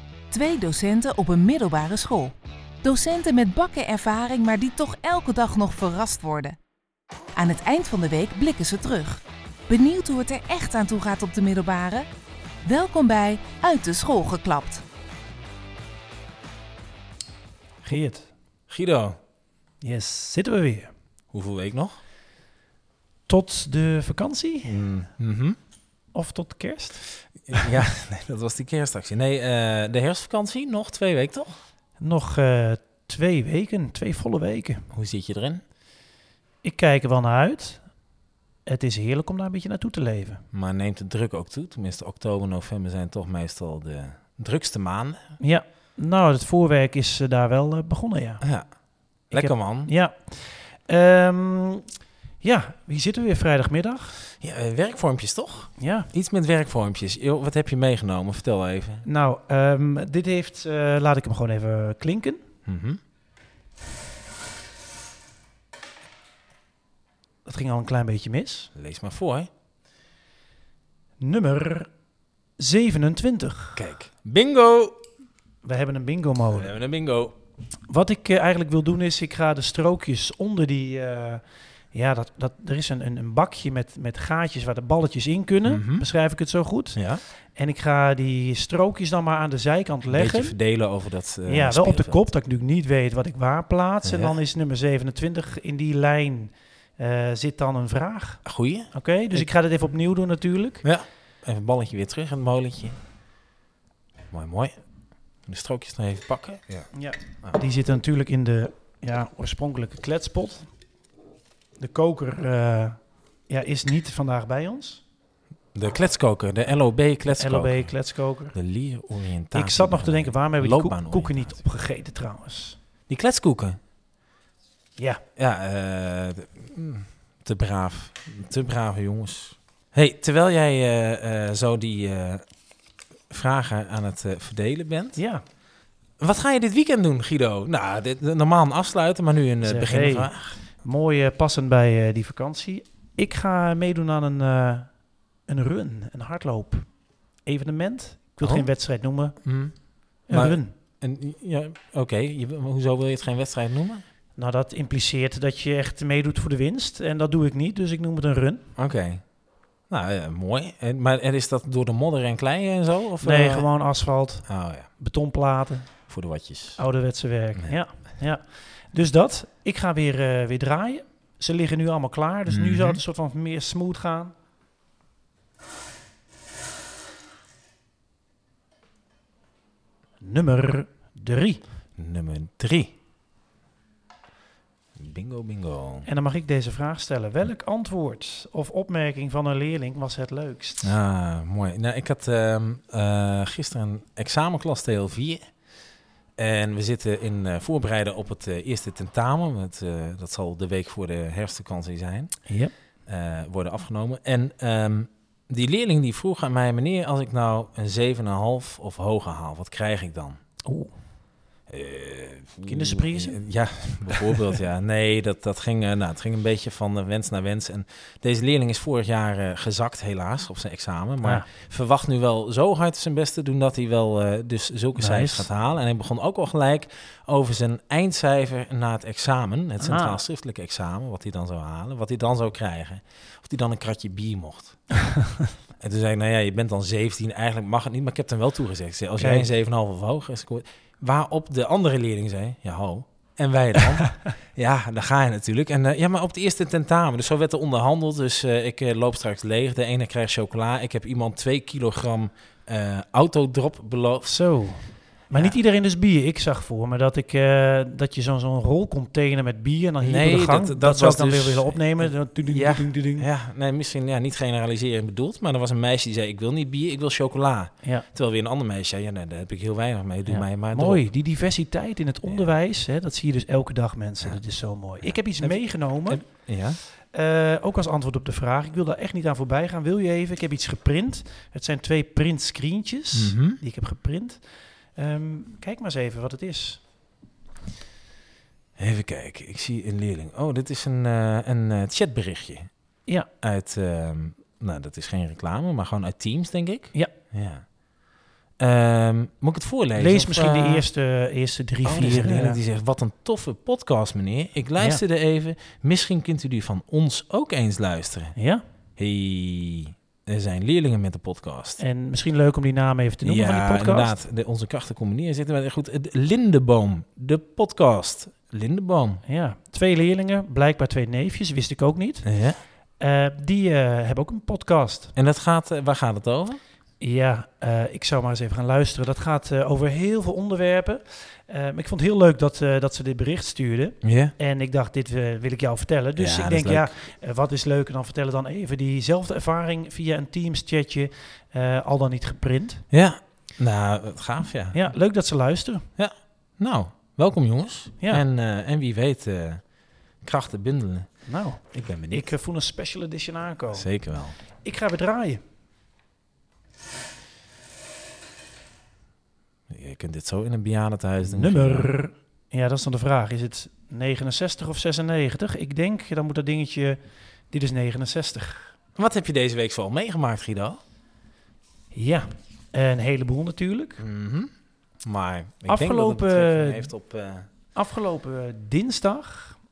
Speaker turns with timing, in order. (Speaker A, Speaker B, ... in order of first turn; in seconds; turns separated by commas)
Speaker A: 0.3-6.6, Speaker A: 7.3-12.1, Speaker A: 12.6-14.8, Speaker B: 17.8-18.3, Speaker C: 18.7-19.2, Speaker B: 19.8-20.9, Speaker C: 21.3-22.0, Speaker B: 23.3-24.8, Speaker C: 24.6-25.6, Speaker B: 26.1-27.1, Speaker C: 27.5-31.5, Speaker B: 32.0-34.8, Speaker C: 34.9-35.6, Speaker B: 36.6-37.9, Speaker B: 38.6-40.4, Speaker C: 40.5-45.2, Speaker B: 45.4-48.4, Speaker C: 48.4-48.7, Speaker B: 49.3-51.9, Speaker C: 49.3-49.9, Speaker B: 52.4-54.2, Speaker C: 54.4-59.0, Speaker B: 55.8-56.1, Speaker B: 59.0-62.4, Speaker C: 62.6-63.0, Speaker B: 67.4-68.7, Speaker C: 68.7-69.5, Speaker B: 71.2-71.9, Speaker B: 72.6-73.8, Speaker C: 73.8-75.0, Speaker B: 75.6-76.7, Speaker C: 76.5-77.3, Speaker B: 77.9-87.0, Speaker C: 85.6-86.1, Speaker C: 87.0-87.2, Speaker B: 87.5-90.6, Speaker C: 90.1-92.2, Speaker B: 91.5-100.8, Speaker C: 94.0-94.4, Speaker C: 98.4-99.5, Speaker C: 100.8-103.0, Speaker C: 104.3-104.8, Speaker C: 105.5-106.9, Speaker B: 106.9-110.7, Speaker B: 111.8-115.0, Speaker C: 115.7-117.9, Speaker B: 117.3-118.6, Speaker C: 118.5-121.6, Speaker B: 119.5-122.8, Speaker C: 123.1-123.8, Speaker B: 125.0-125.2, Speaker C: 125.4-132.4, Speaker C: 133.3-135.2, Speaker B: 135.2-135.4, Speaker C: 136.2-140.6, Speaker B: 139.6-144.9, Speaker B: 145.4-146.9, Speaker B: 147.4-149.4, Speaker C: 148.4-148.7, Speaker C: 149.4-149.8, Speaker B: 150.3-150.7, Speaker C: 150.3-154.0, Speaker B: 154.3-158.7, Speaker C: 158.8-159.2, Speaker C: 159.9-163.7, Speaker B: 163.2-165.9, Speaker C: 164.4-164.9, Speaker C: 166.1-166.8, Speaker B: 166.8-174.3, Speaker C: 172.5-173.0, Speaker B: 180.2-181.6, Speaker C: 182.0-182.9, Speaker C: 184.9-186.1, Speaker B: 186.0-190.9, Speaker C: 190.8-195.4, Speaker C: 196.4-202.3, Speaker B: 202.5-202.7, Speaker C: 203.1-210.4, Speaker B: 210.6-210.9, Speaker C: 211.7-234.8, Speaker B: 212.7-213.4, Speaker B: 224.9-225.5, Speaker B: 229.8-230.2, Speaker C: 235.8-254.3, Speaker B: 239.2-239.5, Speaker B: 254.2-263.3, Speaker C: 260.0-271.0, Speaker B: 270.3-276.2, Speaker C: 272.3-272.5, Speaker C: 275.4-276.8, Speaker B: 277.0-284.4, Speaker C: 283.1-283.6, Speaker B: 284.9-286.8, Speaker C: 288.8-292.7, Speaker C: 293.4-297.6, Speaker C: 298.6-300.9, Speaker B: 299.9-302.6, Speaker C: 301.8-308.3, Speaker B: 308.4-308.6, Speaker C: 309.0-311.8, Speaker B: 311.8-314.2, Speaker C: 313.2-319.2, Speaker B: 319.2-322.3, Speaker C: 322.2-322.6, Speaker B: 323.0-325.1, Speaker C: 325.1-326.6, Speaker B: 327.0-342.9, Speaker C: 334.0-334.3, Speaker C: 336.2-336.9, Speaker C: 342.9-344.8, Speaker B: 344.7-345.9, Speaker C: 346.0-349.6, Speaker C: 350.2-351.1, Speaker B: 351.2-353.9, Speaker C: 351.7-352.3, Speaker C: 353.7-354.4, Speaker B: 354.6-355.4, Speaker C: 359.7-361.9, Speaker B: 361.2-367.0, Speaker B: 367.5-368.7, Speaker C: 369.0-370.8, Speaker B: 371.9-374.0, Speaker C: 374.0-374.5, Speaker C: 375.0-377.5, Speaker B: 375.7-376.9, Speaker B: 377.7-379.6